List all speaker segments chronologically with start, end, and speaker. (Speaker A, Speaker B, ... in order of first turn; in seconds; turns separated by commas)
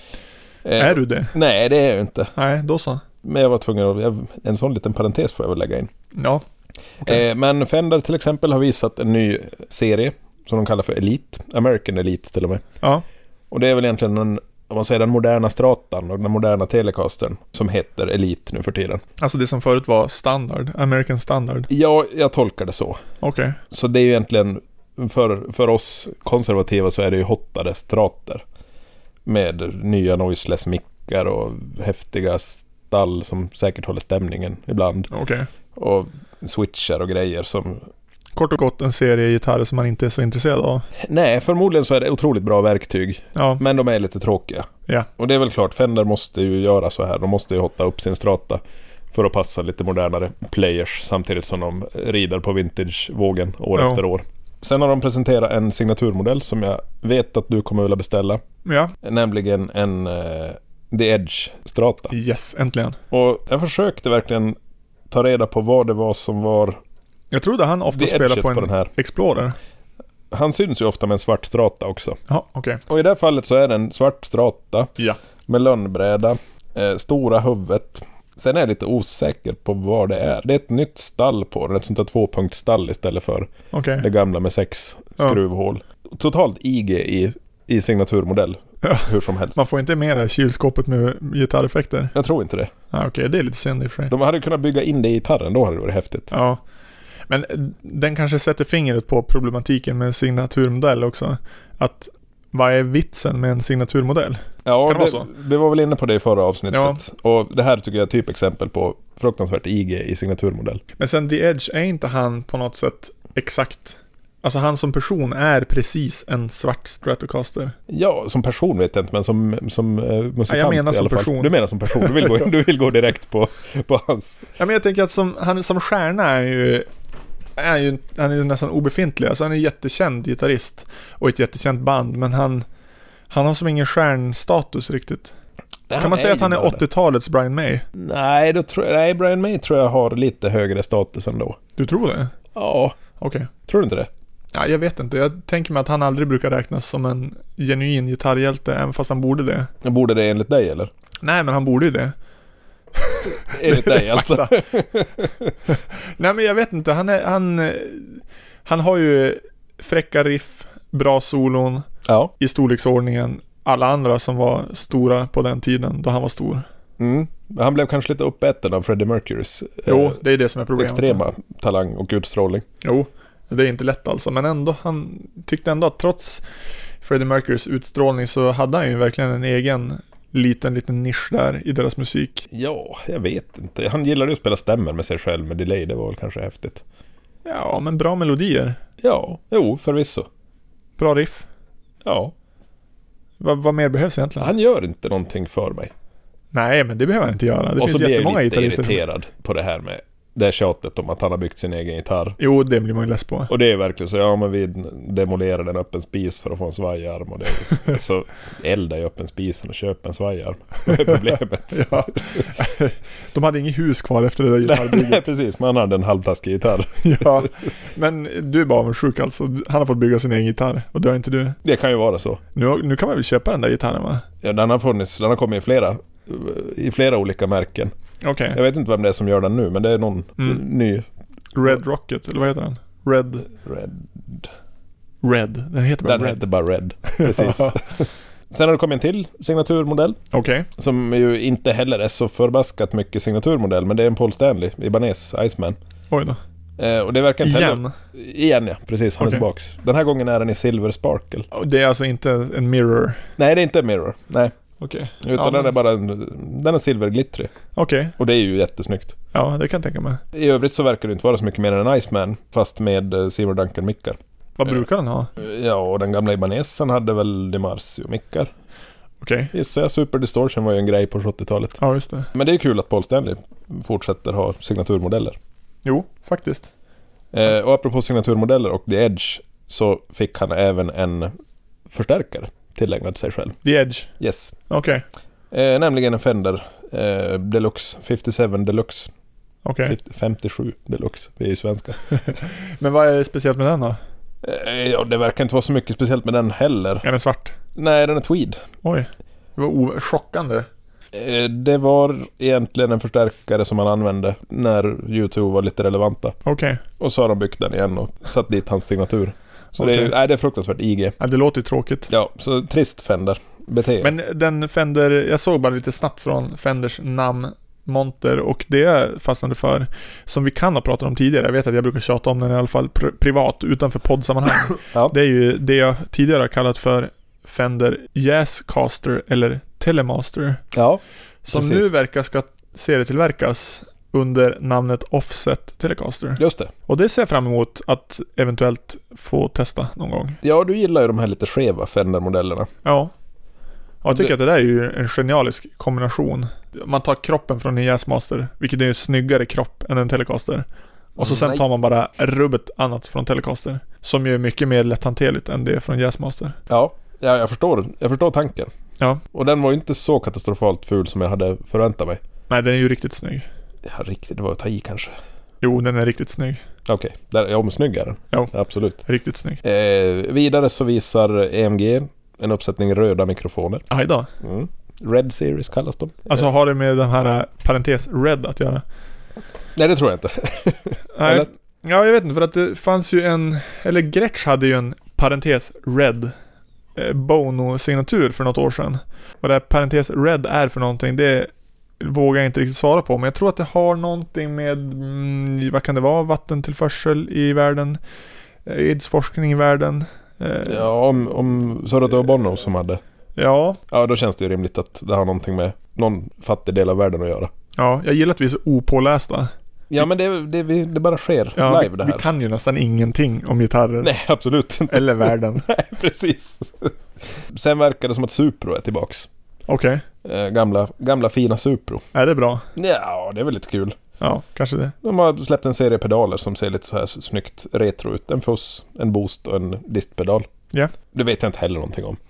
Speaker A: 0.7-2.3, Speaker B: 0.8-1.3, Speaker B: 2.4-3.0, Speaker A: 3.2-5.9, Speaker B: 6.2-6.4, Speaker A: 7.0-12.6, Speaker A: 13.5-19.0, Speaker B: 19.2-21.7, Speaker A: 21.7-23.0, Speaker B: 23.2-23.6, Speaker A: 23.7-28.4, Speaker A: 29.2-35.1, Speaker B: 35.1-35.5, Speaker A: 35.8-37.9, Speaker B: 38.4-40.9, Speaker A: 41.0-48.6, Speaker B: 43.4-43.6, Speaker A: 49.1-58.4, Speaker B: 53.8-54.0, Speaker B: 58.7-58.9, Speaker A: 59.0-62.1, Speaker B: 62.1-63.0, Speaker A: 63.1-64.6, Speaker A: 65.1-66.8, Speaker B: 67.3-69.6, Speaker A: 67.9-68.9, Speaker A: 70.3-72.2, Speaker B: 72.3-72.8, Speaker A: 72.9-74.9, Speaker A: 75.5-89.6, Speaker B: 83.7-84.1, Speaker B: 88.8-92.1, Speaker A: 92.2-92.7, Speaker B: 92.9-94.1, Speaker A: 94.1-96.3, Speaker B: 96.3-96.6, Speaker B: 97.3-105.3, Speaker A: 104.7-110.8, Speaker B: 106.7-107.0, Speaker B: 111.0-117.8, Speaker A: 117.9-124.5, Speaker B: 120.5-122.5, Speaker B: 124.6-126.9, Speaker B: 127.6-132.7, Speaker B: 133.3-135.3, Speaker A: 135.9-136.8, Speaker B: 136.0-137.8, Speaker A: 137.9-141.6, Speaker B: 141.8-142.3, Speaker A: 142.6-143.0, Speaker B: 143.2-143.5, Speaker A: 143.7-144.1, Speaker B: 144.5-149.7, Speaker A: 149.8-150.9, Speaker B: 151.2-152.1, Speaker B: 153.0-154.6, Speaker A: 153.3-155.5, Speaker B: 155.7-161.8, Speaker A: 162.1-162.3, Speaker B: 162.4-166.7, Speaker A: 167.0-170.2, Speaker B: 169.9-171.2, Speaker A: 170.8-172.7, Speaker B: 172.8-176.4, Speaker B: 177.0-182.5, Speaker A: 182.5-186.8, Speaker B: 187.4-188.8, Speaker A: 189.0-190.3, Speaker B: 191.0-191.5, Speaker A: 192.0-192.3, Speaker B: 193.4-194.5, Speaker A: 194.4-195.9, Speaker B: 196.5-199.0, Speaker A: 197.8-202.4, Speaker B: 202.4-203.5, Speaker A: 203.5-212.5, Speaker B: 210.9-215.2, Speaker A: 214.6-217.5, Speaker B: 217.0-221.6, Speaker A: 221.6-222.4, Speaker B: 222.6-224.2, Speaker A: 224.4-227.9, Speaker B: 228.2-228.6, Speaker A: 228.5-231.1, Speaker B: 231.6-233.5, Speaker A: 233.6-234.5, Speaker B: 235.2-236.4, Speaker A: 236.1-240.2, Speaker B: 237.1-238.0, Speaker B: 240.3-240.7, Speaker A: 240.8-245.8, Speaker B: 246.1-246.4, Speaker A: 246.8-251.5, Speaker B: 247.4-247.9, Speaker B: 251.5-253.3, Speaker A: 253.4-254.5, Speaker B: 254.8-255.7, Speaker A: 255.2-257.5, Speaker B: 257.8-258.1, Speaker A: 258.2-259.2, Speaker B: 259.3-260.2, Speaker A: 260.3-264.7, Speaker B: 264.6-265.3, Speaker A: 265.4-268.5, Speaker B: 269.2-269.5, Speaker A: 269.5-271.8, Speaker B: 271.8-272.3, Speaker A: 272.3-275.4, Speaker B: 275.9-276.7, Speaker A: 277.3-281.3, Speaker A: 281.9-283.6, Speaker B: 283.6-284.1, Speaker A: 284.2-284.6, Speaker B: 284.7-285.0, Speaker A: 285.5-289.1, Speaker B: 289.6-290.0, Speaker A: 289.9-292.1, Speaker B: 292.1-294.0, Speaker A: 294.4-297.0, Speaker B: 297.0-297.6, Speaker A: 297.8-298.6, Speaker B: 298.8-300.7, Speaker A: 301.1-306.4, Speaker B: 306.4-306.8, Speaker A: 307.0-311.2, Speaker B: 309.8-310.1, Speaker B: 311.2-312.1, Speaker A: 312.1-314.1, Speaker B: 314.0-330.6, Speaker A: 330.7-331.9, Speaker B: 331.4-340.4, Speaker A: 336.4-336.7, Speaker A: 340.4-342.7, Speaker B: 342.8-343.1, Speaker B: 344.0-350.6, Speaker B: 351.2-356.6, Speaker A: 351.2-351.6, Speaker A: 356.7-358.7, Speaker A: 359.3-362.2, Speaker B: 362.5-363.5, Speaker A: 363.9-365.1, Speaker B: 365.6-366.6, Speaker A: 366.9-369.0, Speaker B: 369.1-369.6, Speaker A: 369.6-373.9, Speaker B: 373.9-374.3, Speaker A: 374.4-376.4, Speaker B: 376.3-378.8, Speaker A: 379.8-381.5, Speaker B: 381.1-386.3, Speaker B: 387.0-398.0, Speaker B: 398.6-400.9, Speaker A: 400.7-403.0, Speaker B: 403.4-403.8, Speaker A: 403.9-407.5, Speaker B: 407.8-409.5, Speaker A: 409.9-412.2, Speaker B: 411.6-414.1, Speaker A: 414.0-419.3, Speaker B: 414.9-415.7, Speaker B: 419.7-420.0, Speaker A: 420.2-422.0, Speaker B: 422.1-422.7, Speaker A: 422.8-424.0, Speaker B: 424.2-424.9, Speaker A: 425.0-430.5, Speaker A: 431.1-432.2